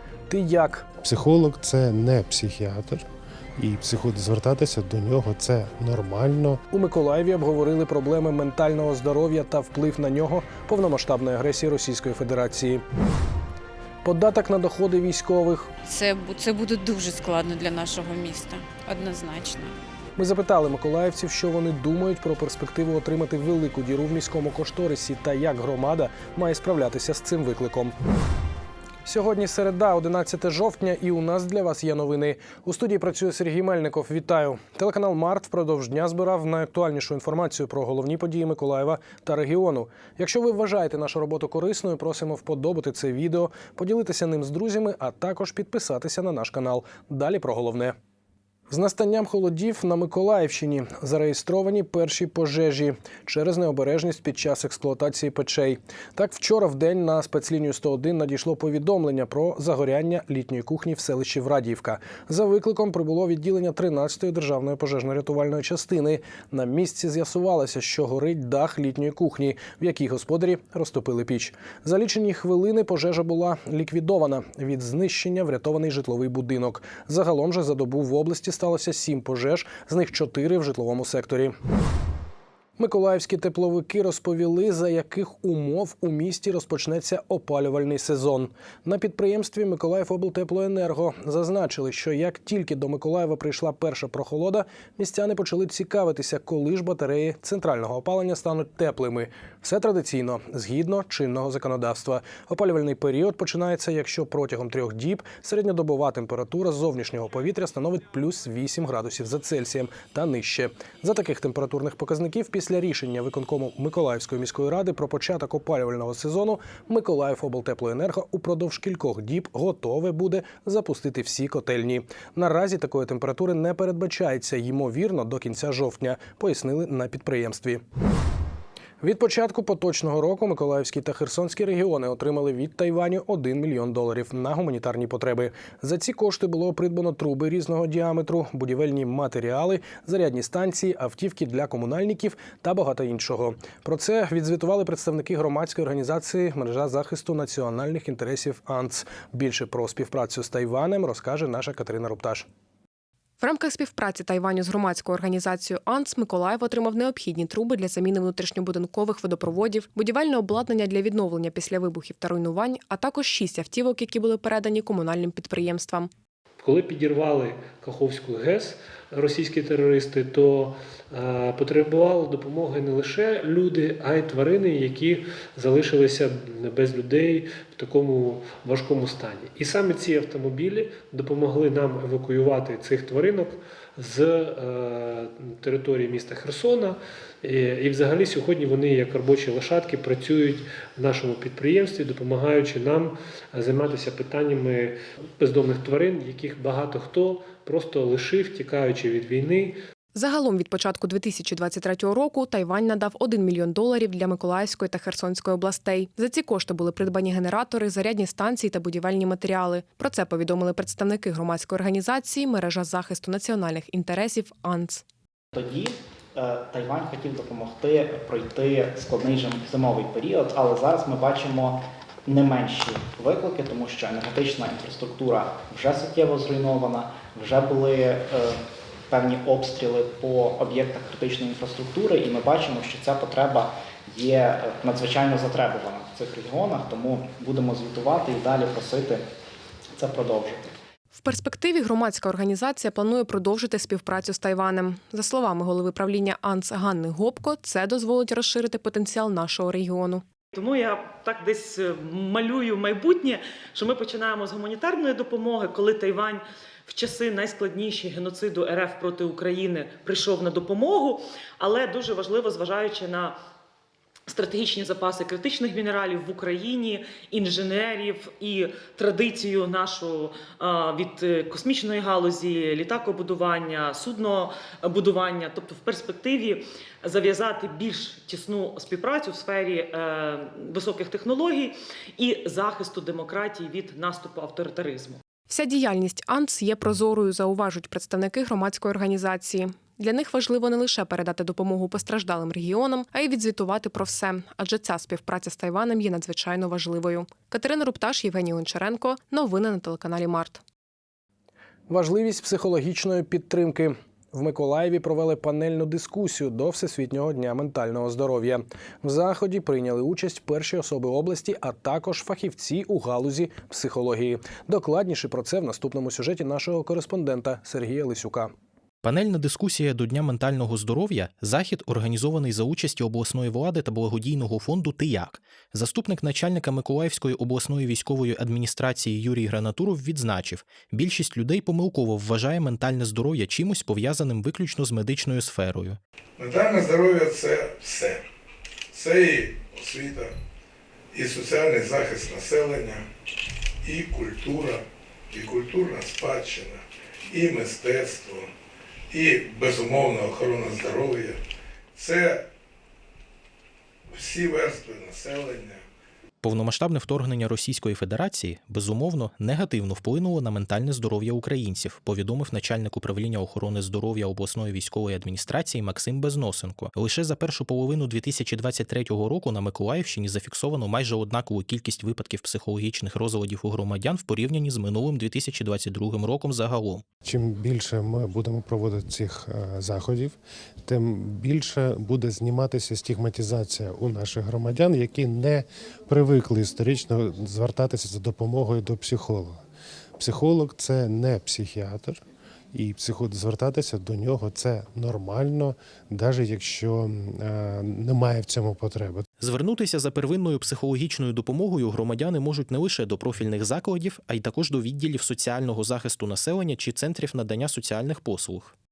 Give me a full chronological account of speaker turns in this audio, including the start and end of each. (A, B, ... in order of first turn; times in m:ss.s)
0:00.3-0:00.9 A
0:01.0-0:03.0 B
0:03.6-0:06.6 B
0:06.7-0:12.8 A
0:14.0-0:15.7 A
0:15.9-0:19.7 C
0:20.2-0:28.0 A
0:29.0-0:48.0 A
0:48.7-1:21.5 A
1:22.8-2:07.8 A
2:09.0-2:32.4 A
2:33.4-2:46.1 D
2:46.6-3:19.8 E
3:20.1-3:35.0 D
3:35.6-3:48.6 F
3:49.1-3:59.2 F
4:00.0-4:00.6 F
4:01.1-4:10.2 D
4:10.5-4:23.4 G
4:24.3-4:45.2 G
4:45.5-5:00.6 D
5:01.9-5:18.5 A
5:19.0-5:36.0 H
5:36.4-5:38.2 I
5:38.9-5:40.3 I
5:41.1-5:43.0 I
5:43.8-5:44.8 I
5:45.3-5:46.8 I
5:47.3-5:48.5 I
5:49.1-5:51.4 I
5:52.0-5:52.4 I
5:54.1-5:55.8 I
5:56.4-6:17.0 H
6:17.2-6:29.6 B
6:30.2-6:32.2 B
6:32.7-6:39.2 B
6:39.4-6:48.7 H